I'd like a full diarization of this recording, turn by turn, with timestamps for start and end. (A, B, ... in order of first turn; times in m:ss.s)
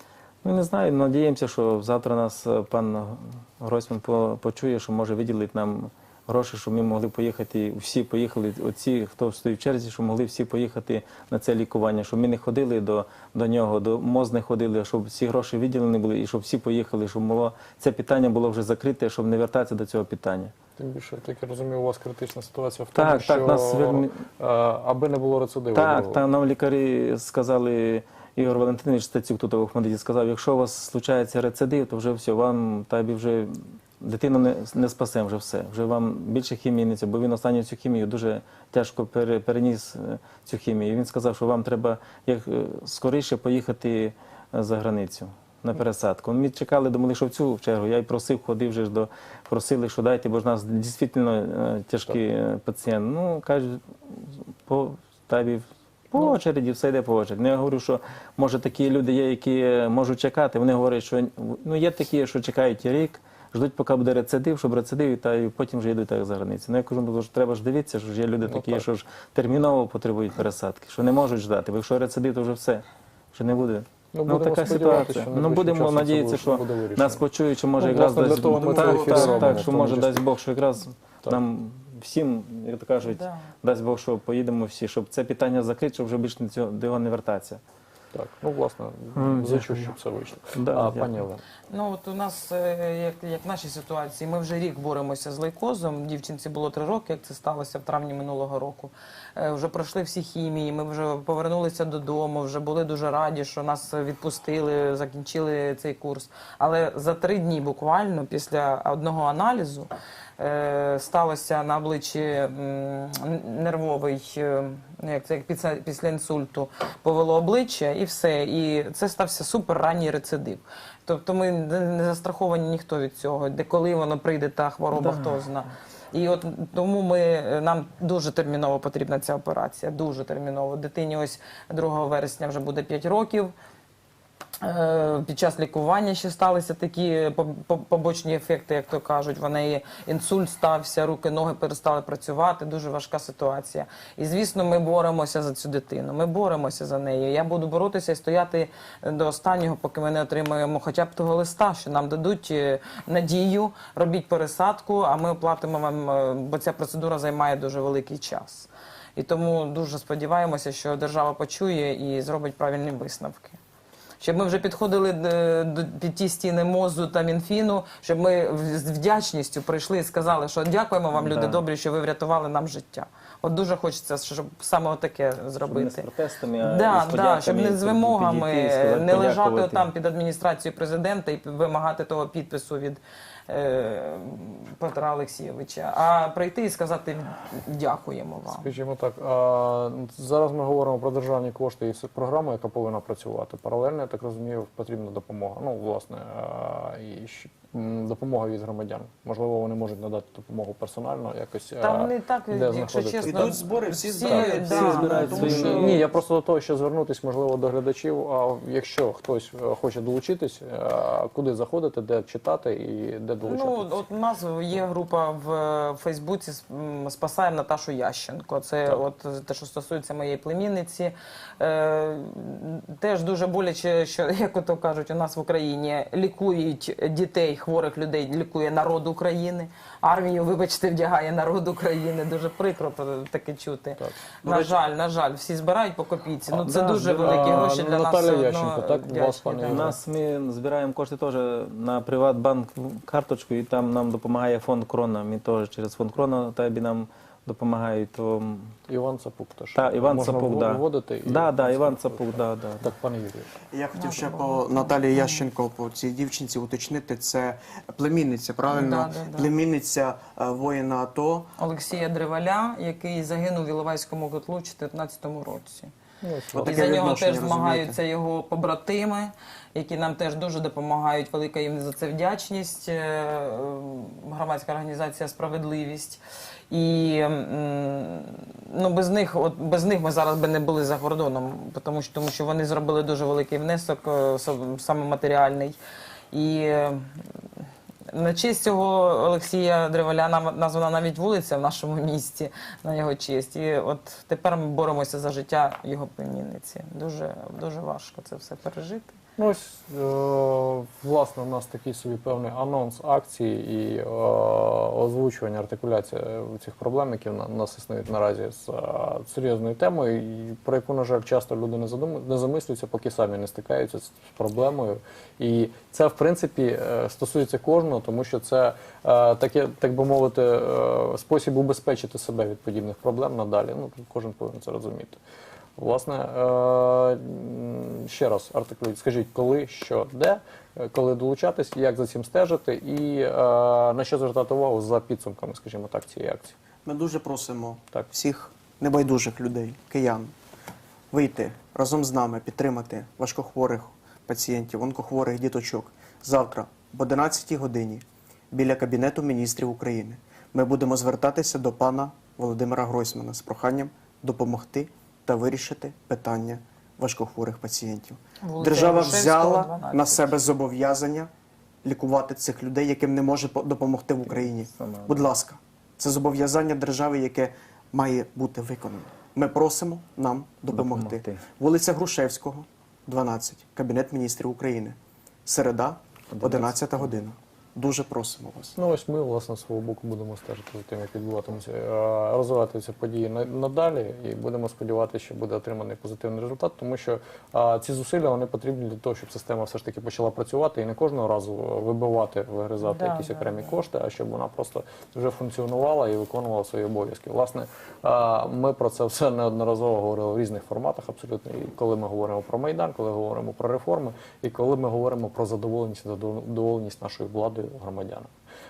0:00.4-0:20.5 A
0:20.8-0:26.2 B
0:23.0-0:24.2 A
0:25.8-1:27.6 A
1:08.5-1:08.9 B
1:14.1-1:17.3 B
1:17.8-1:20.2 B
1:18.7-1:19.3 C
1:23.0-1:23.5 D
1:28.1-1:31.4 B
1:29.2-1:29.9 A
1:30.6-1:31.2 A
1:31.7-2:13.5 D
2:05.0-2:05.4 A
2:14.6-2:43.6 D
2:44.2-2:56.1 D
2:51.1-2:51.6 A
2:55.7-2:59.9 A
2:56.6-3:08.7 D
3:08.5-3:23.6 B
3:21.8-3:26.0 D
3:23.2-3:26.0 C
3:24.2-3:33.9 B
3:24.6-3:26.0 A
3:33.4-4:00.0 D
3:54.4-3:54.8 C
3:56.5-3:57.7 A
3:57.2-4:00.0 B
3:59.7-4:08.8 A
4:08.9-4:13.5 B
4:09.7-4:12.9 A
4:13.7-4:21.5 C
4:14.0-4:15.5 D
4:18.7-4:19.5 D
4:21.6-4:25.9 D
4:26.2-4:26.9 B
4:26.5-4:28.0 C
4:26.6-4:45.8 D
4:46.3-4:47.2 D
4:48.1-4:59.2 D
4:59.4-5:25.2 B
5:25.8-5:36.6 B
5:36.8-5:40.3 C
5:41.1-6:01.3 C
5:58.4-6:00.4 D
6:01.8-6:18.8 C
6:04.3-6:05.2 A
6:10.7-6:11.4 A
6:16.3-6:16.7 A
6:18.8-6:48.3 B
6:32.8-6:33.7 D